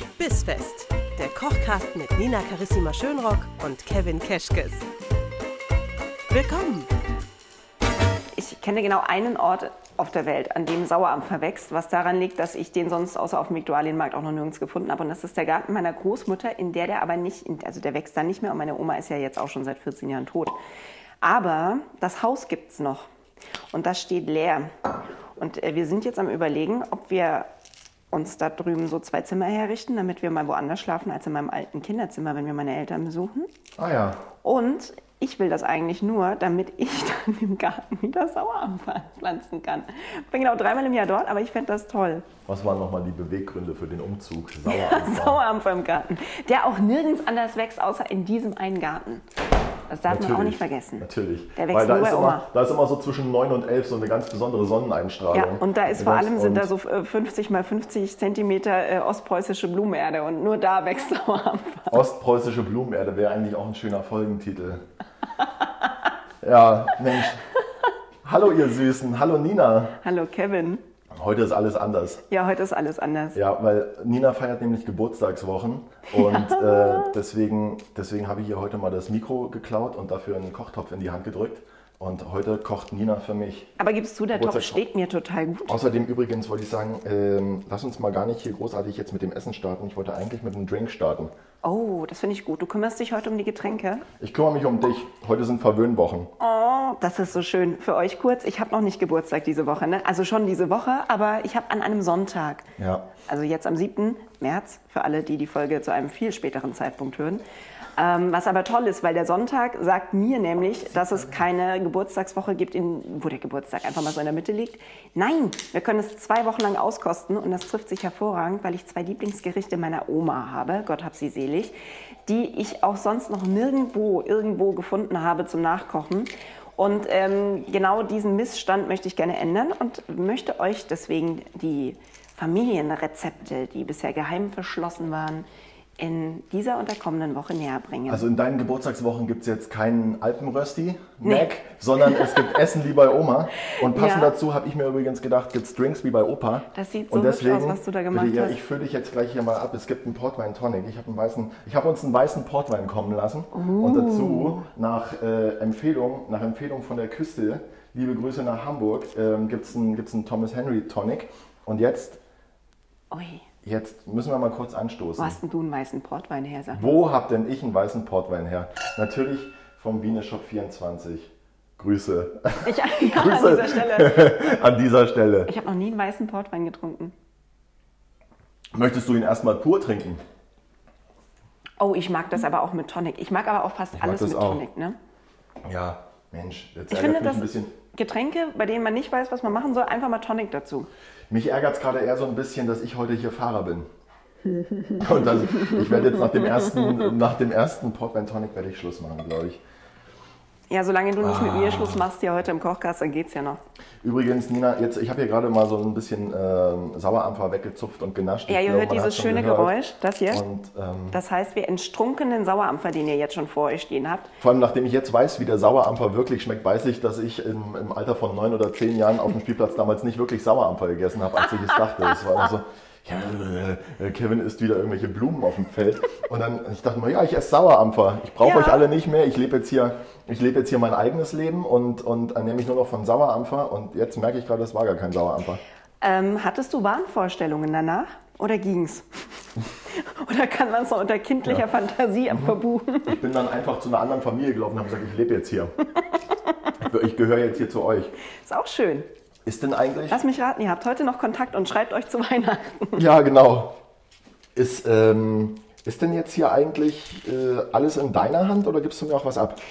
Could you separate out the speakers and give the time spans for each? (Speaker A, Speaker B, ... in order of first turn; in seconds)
Speaker A: 0.2-4.9, 6.3-6.9
Speaker B: 8.4-20.6, 21.2-23.1, 23.7-24.7, 25.4-27.5, 28.1-33.5, 34.4-42.3, 44.7-49.2, 49.9-52.5, 55.3-62.0, 70.0-70.8, 72.3-73.4, 76.1-77.1, 83.8-85.8, 91.6-94.1, 96.4-102.7, 103.3-107.4, 108.0-135.5, 136.0-138.2, 142.0-142.5, 143.8-144.3, 146.7-148.6, 153.5-154.6, 163.1-163.4, 165.2-166.9, 172.6-174.5, 175.5-177.1, 181.8-185.0, 186.9-190.9, 195.5-196.2, 200.7-203.6, 208.5-210.4, 211.1-214.3, 228.4-228.9, 236.0-239.1, 239.9-243.2, 248.4-249.1, 250.1-253.0
Speaker C: 33.8-34.2, 42.5-45.4, 50.1-56.7, 61.9-64.9, 66.4-67.4, 68.2-70.0, 71.1-72.2, 73.3-83.7, 84.3-84.8, 85.7-91.3, 94.2-96.3, 102.8-103.1, 138.1-162.2, 163.6-165.4, 166.7-175.5, 178.7-180.2, 183.9-184.6, 185.6-187.7, 191.3-193.9, 195.0-199.6, 201.2-202.0, 204.0-209.8, 210.3-211.2, 214.4-235.6, 243.1-245.7, 246.8-248.1, 249.4-250.2, 252.9-253.8, 254.6-259.6